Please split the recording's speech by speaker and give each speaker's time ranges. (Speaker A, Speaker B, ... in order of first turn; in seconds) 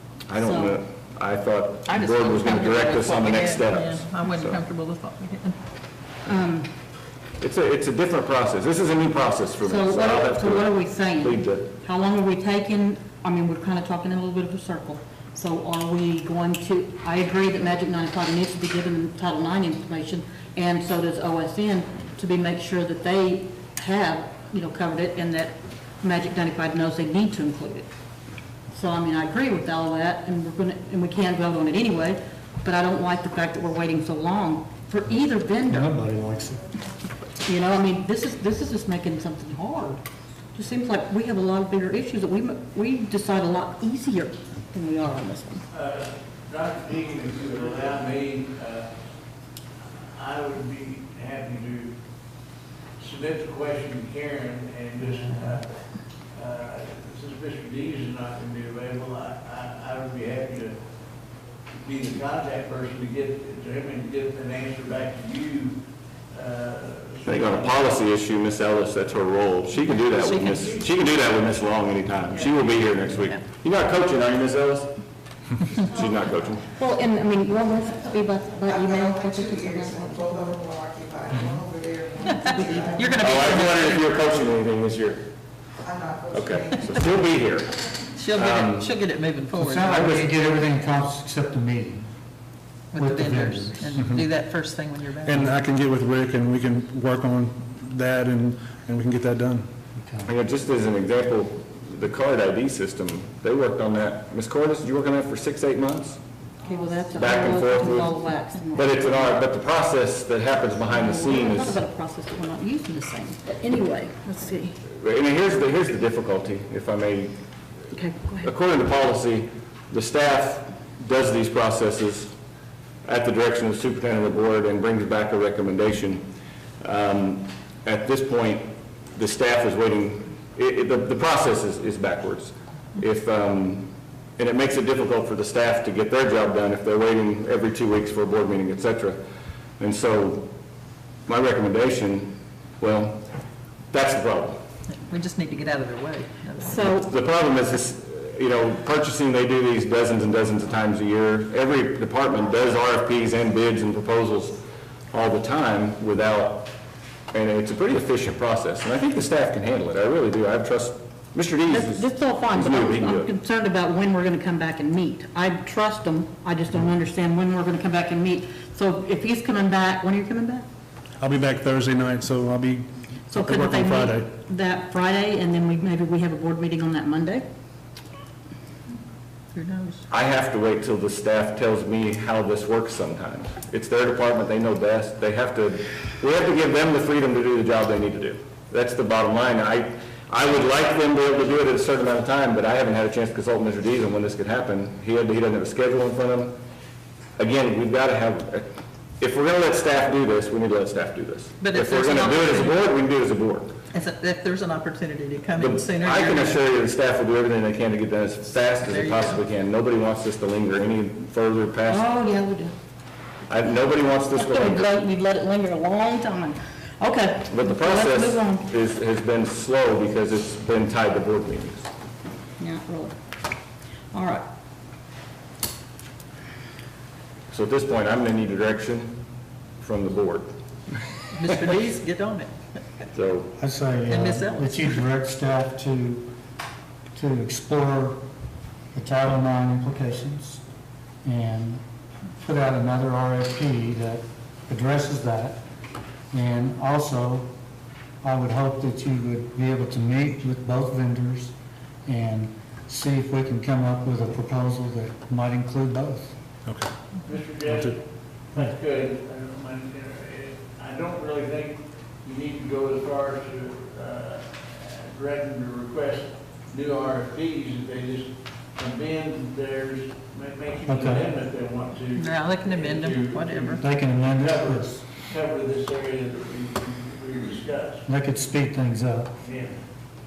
Speaker A: 0.3-4.6, 7.4-11.7, 67.2-74.9, 75.8-76.7, 83.2-85.2, 86.3-87.7, 88.3-88.9, 89.9-90.3, 100.2-106.2, 107.1-108.1, 108.7-111.8, 115.0-117.3, 118.4-122.3, 123.0-126.2, 126.8-139.2, 139.8-140.5, 141.3-143.3, 143.9-144.6, 146.7-154.6, 155.1-156.7, 157.3-163.3, 180.1-196.6, 197.4-198.7, 199.2-203.7, 205.6-212.0, 213.5-214.9, 217.5-221.9, 227.5-229.2, 229.8-230.5, 233.1-233.5
Speaker B: 0.3-0.7, 6.2-6.7, 9.6-27.9, 28.7-36.0, 37.4-40.0, 40.5-45.6, 76.7-80.6, 82.4-83.2, 106.6-109.3, 110.9-114.7, 117.9-118.5, 146.6-147.1, 161.7-170.7, 173.3-177.4, 211.9-212.7, 214.3-218.7, 222.6-223.2, 224.1-224.4
Speaker C: 1.9-5.6, 69.8-70.7, 82.2-84.2, 88.2-90.2, 92.9-95.5, 145.1-146.8, 179.5-180.0, 201.6-202.8, 203.9-206.6, 208.8-209.4, 231.3-232.6, 234.1-235.0, 272.1-273.8
Speaker D: 35.7-36.6, 81.3-81.6, 89.5-92.1, 92.9-94.2, 100.0-100.3, 233.6-236.3, 237.1-238.2, 238.9-240.6, 241.2-241.8, 242.4-245.6, 246.3-247.5, 248.2-251.5, 252.1-256.3, 270.9-271.3, 273.8-275.0, 278.1-279.3
Speaker E: 45.7-48.9, 50.1-51.9, 53.0-55.7, 56.3-60.8, 61.8-65.8, 66.3-68.0, 257.2-257.9, 258.5-278.0, 279.4-279.8
Speaker F: 78.5-83.8, 85.8-87.2
Speaker G: 93.9-94.2, 95.2-99.7, 171.2-174.3, 256.6-256.9, 257.7-258.0